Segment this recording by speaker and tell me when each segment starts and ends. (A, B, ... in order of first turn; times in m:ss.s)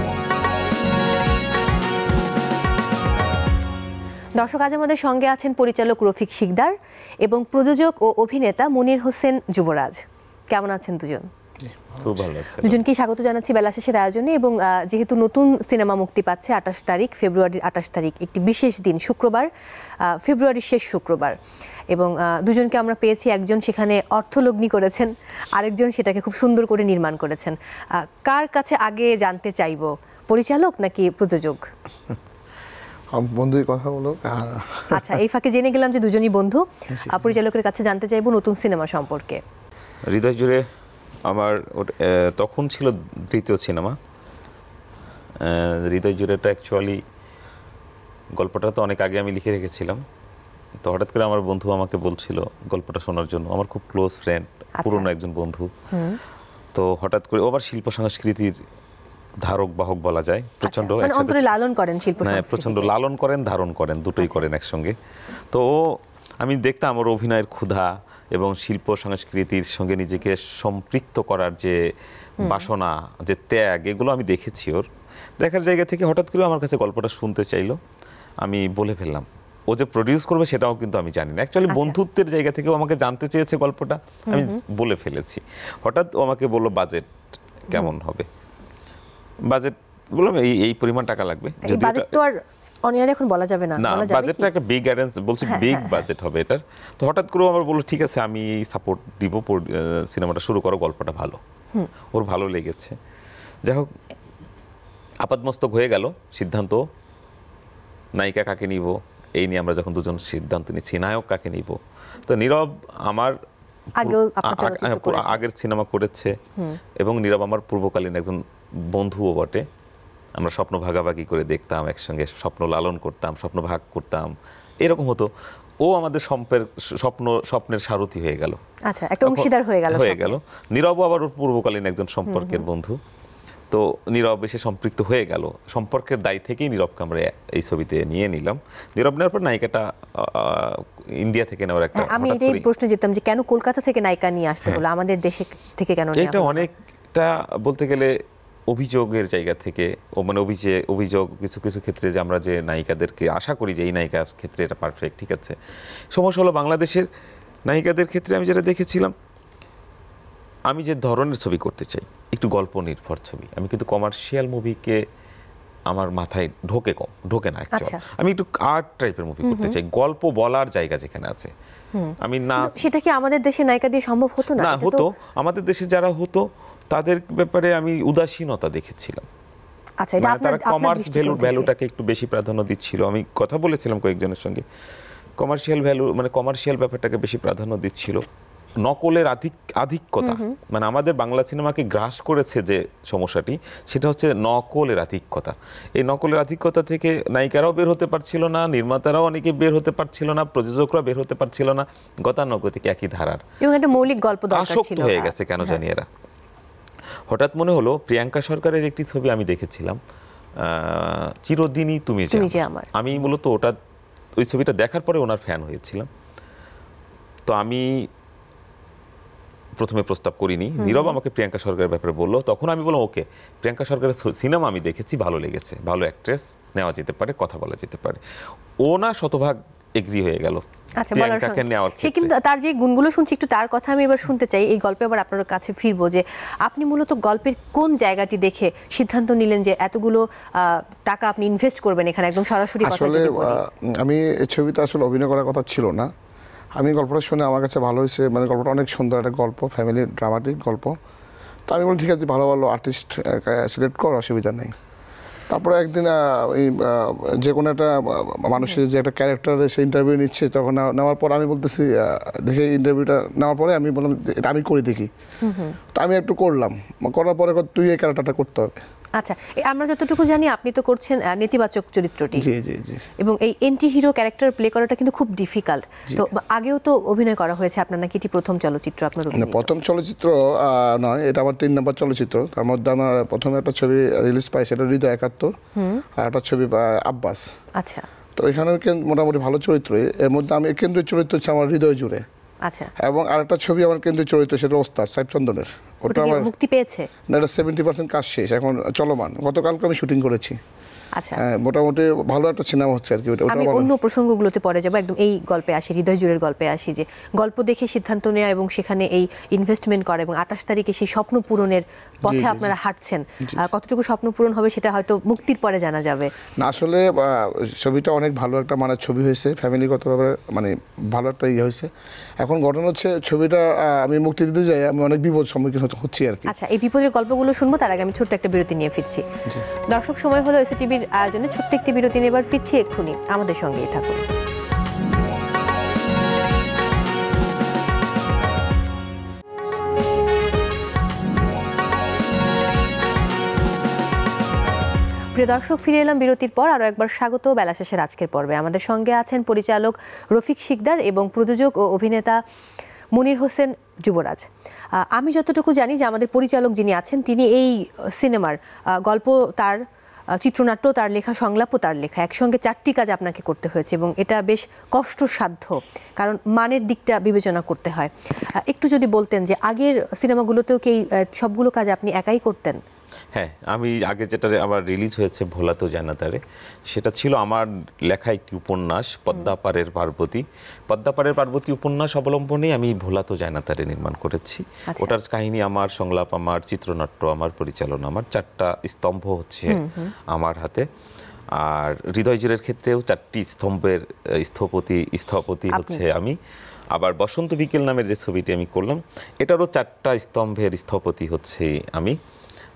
0:04.4-0:06.7 A
0:07.2-0:10.0 A
0:10.5-0:11.3 A
0:12.0-0:12.8 B
0:12.6-0:19.5 A
0:20.2-0:21.3 A
0:21.9-0:27.6 A
0:28.3-0:31.6 A
0:33.1-0:35.2 C
0:34.9-0:39.4 A
0:36.9-0:37.2 C
0:40.1-0:40.6 B
0:41.3-0:44.0 B
0:45.4-0:47.0 B
0:48.4-0:50.0 B
0:50.8-0:55.7 B
0:54.8-0:55.1 A
0:55.9-0:56.2 A
0:56.7-0:58.5 B
0:59.4-1:01.5 B
1:00.6-1:02.9 A
1:02.2-1:04.9 B
1:04.2-1:04.4 A
1:06.4-1:11.8 B
1:12.4-1:12.7 A
1:12.4-1:14.8 B
1:15.4-1:17.8 B
1:18.4-1:27.1 B
1:21.7-1:22.0 A
1:24.3-1:24.6 A
1:27.7-1:28.3 B
1:29.5-1:32.2 B
1:31.6-1:32.3 A
1:32.9-1:34.5 A
1:33.8-1:41.4 B
1:35.5-1:36.0 A
1:42.1-1:43.0 B
1:45.2-1:46.8 B
1:48.2-1:53.3 B
1:54.0-1:55.4 A
1:54.0-1:56.4 B
1:57.0-1:59.6 B
2:00.4-2:04.3 B
2:04.8-2:05.3 B
2:05.8-2:08.6 B
2:08.9-2:10.3 A
2:09.2-2:13.0 B
2:12.3-2:12.6 A
2:13.7-2:22.6 B
2:22.0-2:26.7 A
2:26.2-2:28.1 B
2:28.7-2:35.5 B
2:36.1-2:37.1 B
2:37.7-2:39.1 B
2:40.7-2:45.0 B
2:45.9-2:51.5 B
2:47.8-2:48.0 A
2:49.4-2:49.8 A
2:51.9-2:55.0 A
2:52.2-2:52.9 B
2:54.6-2:59.2 B
3:00.0-3:01.7 A
3:00.2-3:04.6 B
3:05.4-3:08.2 B
3:08.8-3:23.4 B
3:10.2-3:10.5 A
3:23.6-3:25.8 A
3:24.5-3:26.1 B
3:27.3-3:30.0 B
3:30.6-3:33.8 B
3:32.3-3:32.9 A
3:34.4-3:36.1 B
3:37.5-3:37.8 B
3:39.8-3:48.2 B
3:40.8-3:41.2 A
3:48.9-3:50.6 B
3:51.0-4:03.6 A
3:51.1-3:52.3 B
4:02.8-4:06.1 C
4:06.8-4:11.0 C
4:11.7-4:14.7 C
4:15.5-4:25.1 C
4:25.4-4:25.8 A
4:25.9-4:28.8 C
4:29.2-4:32.5 A
4:32.3-4:33.0 C
4:33.2-4:39.7 A
4:39.4-4:45.6 C
4:45.8-4:46.0 A
4:46.2-4:47.5 C
4:47.8-4:48.1 A
4:48.4-4:52.2 C
4:52.7-4:52.9 A
4:53.0-4:56.5 C
4:56.1-4:57.1 A
4:57.3-5:00.6 C
5:01.4-5:03.9 C
5:03.5-5:16.3 A
5:12.2-5:12.7 C
5:16.6-5:21.9 C
5:22.4-5:26.5 C
5:26.5-5:29.2 A
5:29.9-5:34.2 A
5:45.4-5:52.4 A
5:53.2-5:54.5 A
5:55.2-5:59.8 A
6:00.4-6:12.8 A
6:13.3-6:29.8 B
6:29.7-6:30.1 A
6:30.3-6:30.8 B
6:31.6-6:36.4 B
6:35.7-6:36.0 A
6:36.9-6:42.2 B